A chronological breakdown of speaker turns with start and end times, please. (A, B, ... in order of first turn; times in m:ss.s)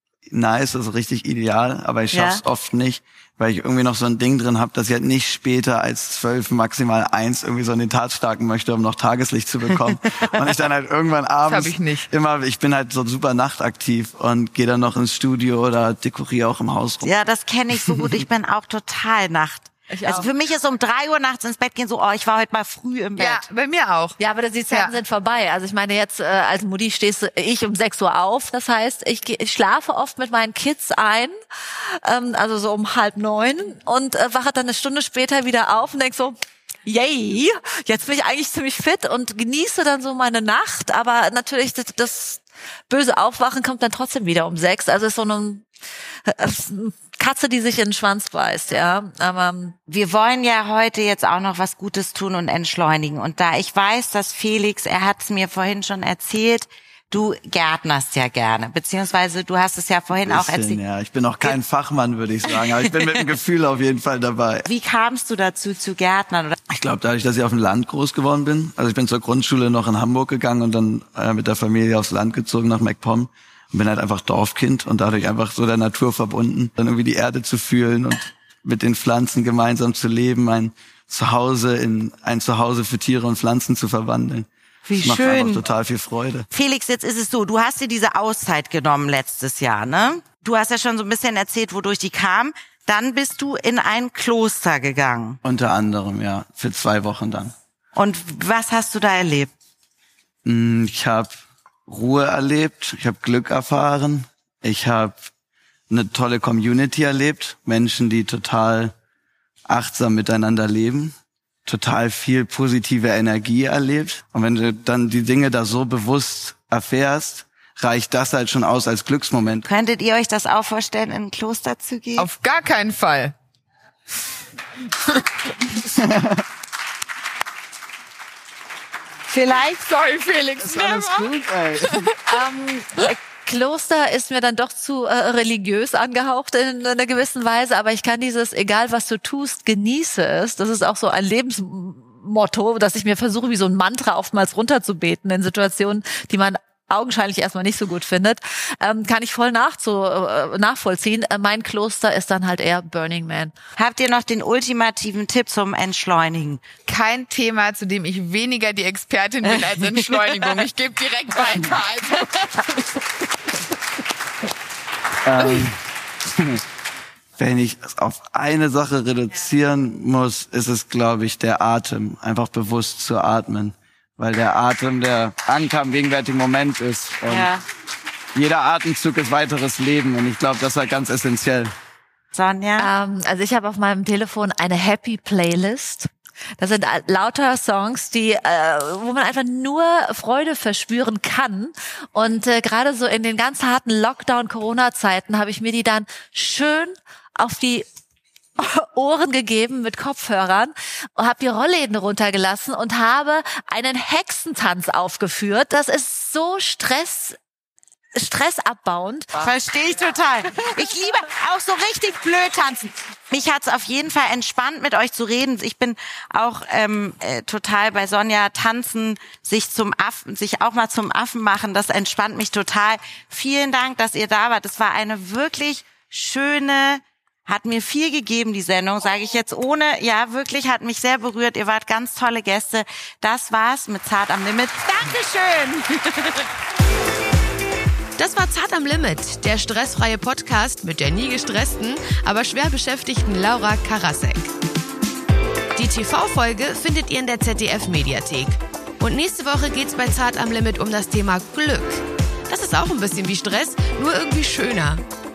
0:00.3-0:17.1 A
0:02.1-0:02.4 B
0:11.4-0:12.1 C
0:17.0-0:23.4 B
0:19.9-0:20.3 D
0:23.2-0:24.2 C
0:24.2-0:45.6 D
0:46.2-0:49.8 D
0:49.9-1:00.8 B
1:00.2-1:04.7 A
1:04.6-1:06.6 B
1:06.7-1:24.5 A
1:24.8-1:25.6 B
1:25.0-1:26.5 A
1:26.5-1:35.4 B
1:35.4-1:37.5 A
1:37.9-1:39.5 B
1:40.4-1:45.3 A
1:45.9-1:48.9 A
1:49.7-1:51.1 A
1:51.6-1:59.6 A
1:59.6-2:02.3 B
2:02.2-2:03.3 C
2:05.9-2:06.4 A
2:09.3-2:09.8 B
2:09.6-2:11.3 C
2:10.6-2:12.1 A
2:11.8-2:12.3 C
2:12.2-2:33.5 D
2:33.8-2:36.6 B
2:36.8-2:42.6 C
2:45.2-2:45.8 A
2:45.4-2:45.6 C
2:46.3-2:46.6 A
2:47.4-2:57.5 A
2:57.3-2:57.6 B
2:58.3-3:01.7 A
3:02.3-3:02.9 B
3:02.8-3:17.8 D
3:18.6-3:27.4 D
3:28.1-3:29.5 D
3:29.4-3:56.1 B
3:58.2-4:04.5 E
4:05.7-4:15.0 E